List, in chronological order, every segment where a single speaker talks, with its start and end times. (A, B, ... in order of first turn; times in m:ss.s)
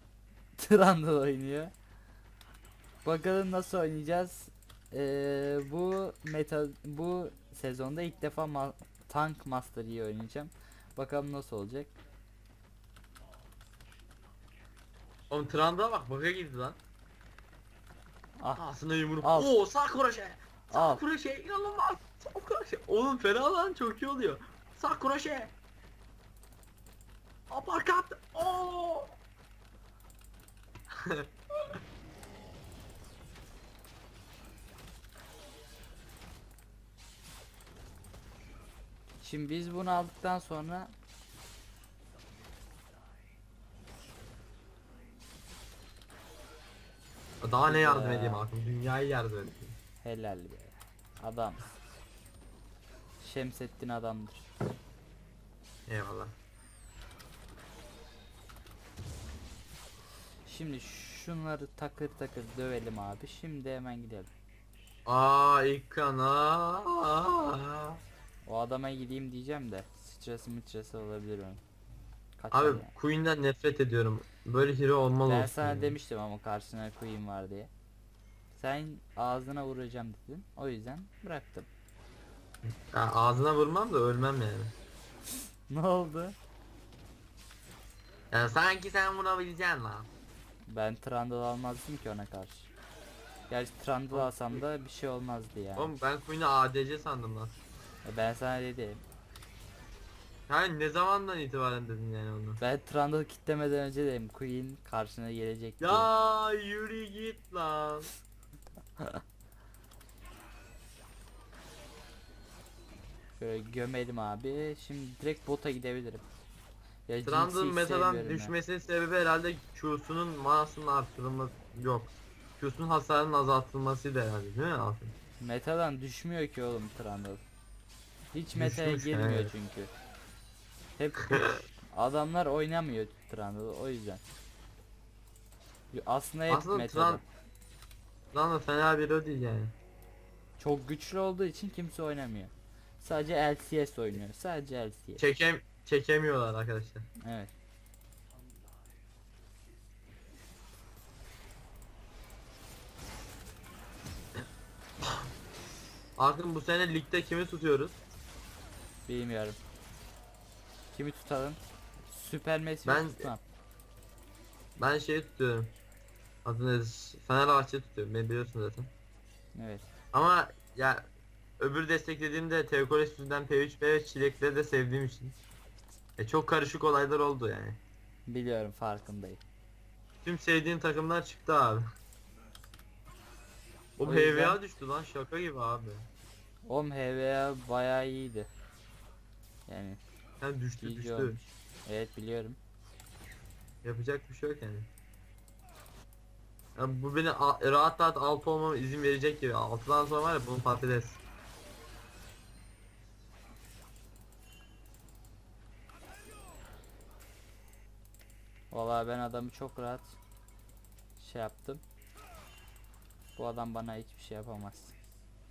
0:00.6-0:01.7 A
0:03.0-0:12.0 A
0:15.3-0:16.8 B
0:18.4-0:18.7 A
0:18.6-0:25.5 B
0:19.2-0:19.5 A
0:20.7-0:21.0 A
0:27.5-0:29.2 B
0:31.0-0:31.3 B
0:39.2-0:40.9 A
0:47.4-0:49.8 B
0:47.7-0:48.5 A
0:50.0-0:51.6 A
0:53.2-0:54.4 A
0:55.9-0:56.3 B
1:00.4-1:04.3 A
1:05.0-1:08.0 B
1:08.4-1:11.6 A
1:12.4-1:12.9 A
1:12.5-1:16.0 B
1:15.3-1:17.7 A
1:18.5-1:21.7 A
1:22.6-1:24.7 B
1:25.7-1:26.4 A
1:28.3-1:30.1 B
1:30.7-1:32.7 A
1:33.5-1:35.9 A
1:34.1-1:34.6 B
1:35.8-1:37.5 B
1:38.0-1:39.0 A
1:40.5-1:42.6 B
1:42.6-1:46.1 A
1:45.8-1:48.1 B
1:53.4-1:56.2 A
1:57.1-1:58.5 A
1:57.2-2:05.1 B
2:05.4-2:07.4 A
2:08.3-2:09.9 A
2:08.6-2:09.5 B
2:11.0-2:14.2 A
2:15.9-2:17.2 A
2:16.5-2:17.2 B
2:18.3-2:19.7 B
2:20.6-2:25.2 A
2:25.2-2:27.0 B
2:27.2-2:27.5 A
2:36.2-2:38.0 B
2:39.1-2:39.6 A
2:40.9-2:43.4 A
2:42.8-2:43.3 B
2:44.8-2:45.7 B
2:46.4-2:48.9 B
2:49.6-2:49.9 A
2:50.1-2:51.1 B
2:51.6-2:55.3 B
2:56.2-2:57.8 B
2:58.3-2:59.4 A
3:00.2-3:01.9 B
3:04.0-3:06.1 B
3:04.0-3:04.6 A
3:06.7-3:08.5 A
3:09.7-3:10.0 A
3:10.4-3:11.4 B
3:10.8-3:12.6 A
3:13.8-3:14.9 B
3:16.8-3:21.2 B
3:28.7-3:30.2 A
3:31.2-3:31.8 A
3:33.4-3:35.0 A